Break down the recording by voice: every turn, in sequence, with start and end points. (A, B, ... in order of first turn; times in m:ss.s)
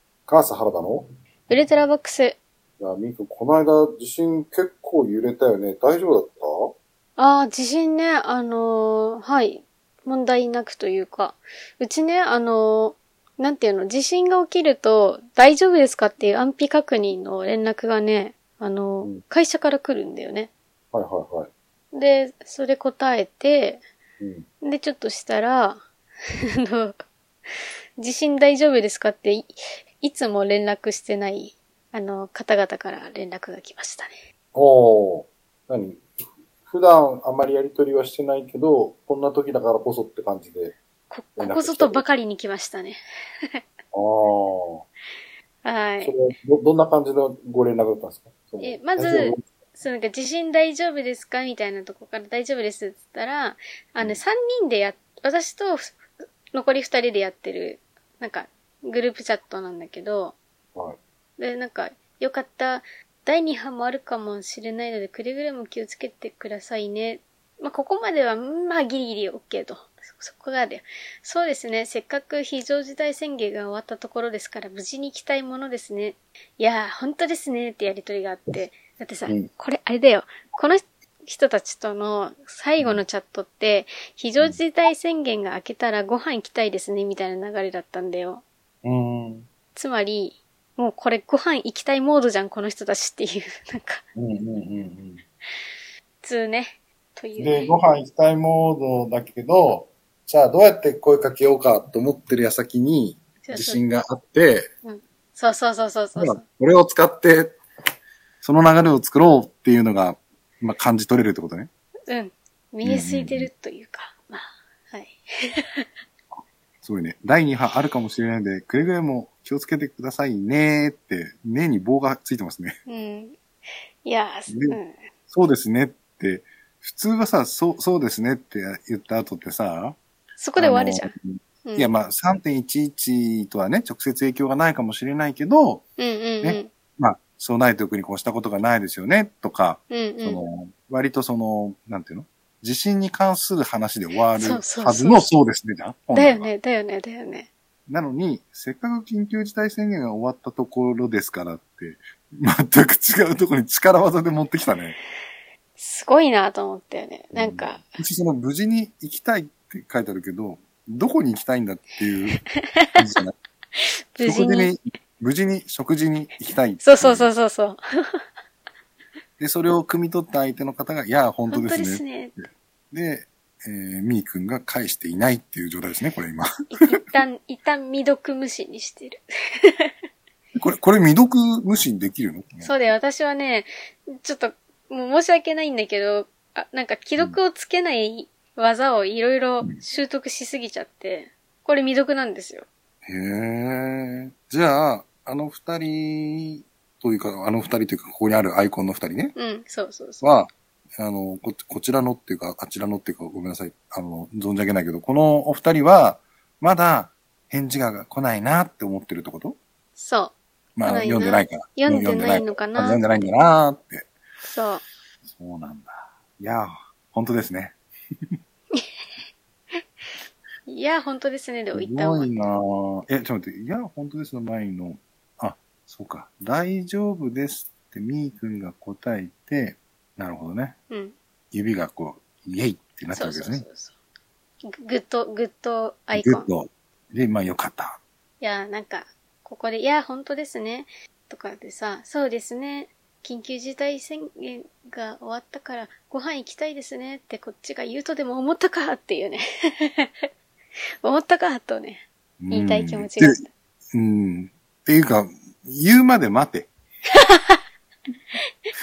0:00.3-0:01.1 A
0:01.5-0:02.4 B
0:02.8-0:06.8 A
0:07.2-0:20.5 B
0:20.9-0:21.5 A
0:21.9-0:23.8 B
0:24.2-0:24.4 A
0:24.6-0:25.8 B
0:26.5-0:34.2 B
0:34.5-0:40.8 A
0:41.1-0:43.6 B
0:41.4-0:42.0 A
0:43.9-0:44.8 A
0:45.6-0:46.1 B
0:46.0-0:49.4 A
0:48.6-0:56.0 B
0:56.5-1:00.4 B
1:01.4-1:28.4 B
1:22.8-1:23.0 A
1:28.8-1:29.5 A
1:29.8-1:34.0 B
1:34.2-1:35.2 A
1:36.2-1:37.8 B
1:37.4-1:44.7 A
1:43.4-1:43.8 B
1:44.8-1:46.4 B
1:46.2-1:47.6 A
1:48.4-1:51.7 A
1:52.1-1:55.9 B
1:52.8-1:53.5 A
1:56.8-2:02.7 A
2:02.9-2:03.4 B
2:04.0-2:05.0 B
2:04.5-2:04.8 A
2:05.3-2:10.0 A
2:10.4-2:11.1 B
2:10.6-2:15.8 A
2:11.7-2:11.9 B
2:16.0-2:16.7 B
2:16.4-2:26.5 A
2:19.9-2:20.4 B
2:24.3-2:25.3 B
2:26.1-2:27.5 B
2:27.9-2:35.0 A
2:35.8-2:37.9 B
2:37.3-2:42.4 A
2:42.5-2:43.0 B
2:43.0-2:43.3 A
2:43.8-2:44.7 B
2:44.2-2:47.3 A
2:46.8-2:48.2 B
2:49.4-2:56.5 A
2:51.5-2:52.4 B
2:56.7-2:59.9 B
3:00.6-3:02.9 A
3:02.6-3:12.7 B
3:13.1-3:19.4 A
3:19.4-3:20.3 B
3:20.2-3:29.6 A
3:30.0-3:33.2 B
3:30.8-3:34.1 A
3:34.5-3:34.8 B
3:35.2-3:37.8 A
3:40.7-3:42.6 B
3:41.7-3:50.8 A
3:50.9-3:51.2 B
3:51.5-3:53.7 A
3:53.1-3:54.0 B
3:54.7-3:56.5 B
3:56.1-3:58.0 A
3:58.4-4:10.3 B
4:11.0-4:13.5 B
4:12.4-4:13.4 A
4:13.9-4:16.7 A
4:17.1-4:17.6 B